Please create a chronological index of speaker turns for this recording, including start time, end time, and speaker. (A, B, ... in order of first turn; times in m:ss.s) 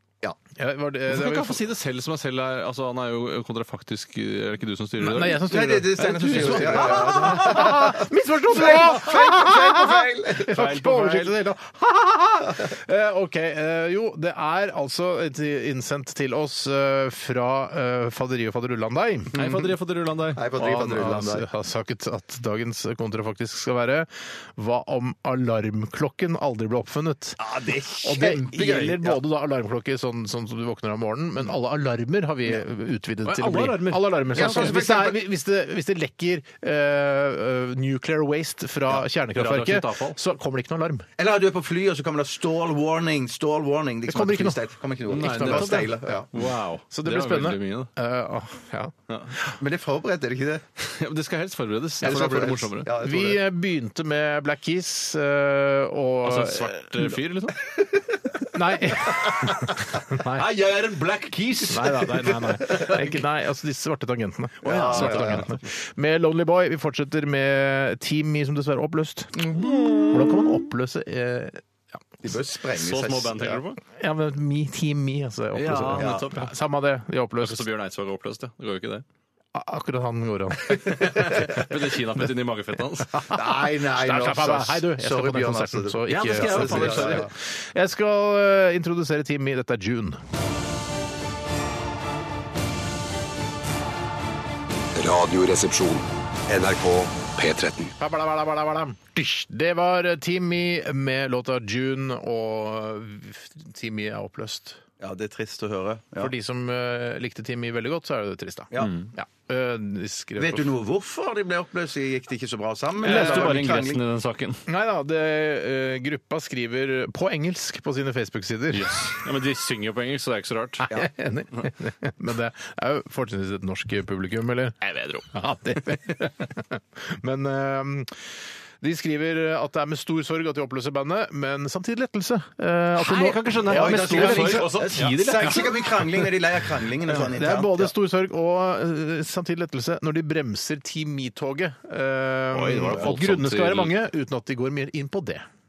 0:00.5-0:01.6 A
0:01.1-0:05.4 B
0:05.0-0:19.4 A
0:05.4-0:10.6 C
0:06.2-0:07.4 B
0:10.5-0:11.3 B
0:19.3-0:21.1 B
0:19.4-0:19.7 C
0:20.4-0:21.4 C
0:20.5-0:41.1 A
0:27.4-0:29.2 C
0:33.2-0:34.8 B
0:34.3-0:35.2 C
0:39.3-0:40.2 B
0:41.2-0:46.3 C
0:44.1-0:44.6 A
0:45.1-0:47.9 B
0:45.1-0:49.6 A
0:49.1-0:49.3 B
0:49.6-0:50.6 C
0:50.8-0:52.9 B
0:52.0-0:53.4 C
0:53.0-0:57.2 A
0:56.2-0:57.6 B
0:58.5-1:00.5 A
1:00.2-1:02.9 B
1:01.7-1:12.3 A
1:04.6-1:05.4 C
1:04.6-1:05.6 B
1:09.6-1:10.0 C
1:09.6-1:10.1 B
1:12.2-1:13.6 C
1:12.8-1:13.8 B
1:13.9-1:17.6 A
1:15.5-1:16.5 B
1:16.0-1:16.2 C
1:17.4-1:19.0 B
1:19.5-1:21.6 A
1:20.7-1:23.3 B
1:23.1-1:30.2 A
1:23.3-1:27.3 C
1:26.1-1:27.3 B
1:34.9-1:37.9 D
1:38.0-1:44.8 A
1:45.0-1:46.3 C
1:46.2-1:50.7 A
1:48.8-1:49.1 B
1:50.4-1:54.0 C
1:53.0-1:54.6 B
1:53.0-1:53.6 A
1:54.6-1:59.1 A
1:58.7-2:00.9 B
2:00.9-2:04.8 A
2:04.8-2:05.3 B
2:05.3-2:08.2 A
2:08.8-2:16.2 A
2:13.0-2:15.7 B
2:13.7-2:17.9 C
2:17.1-2:25.4 A
2:22.5-2:23.9 B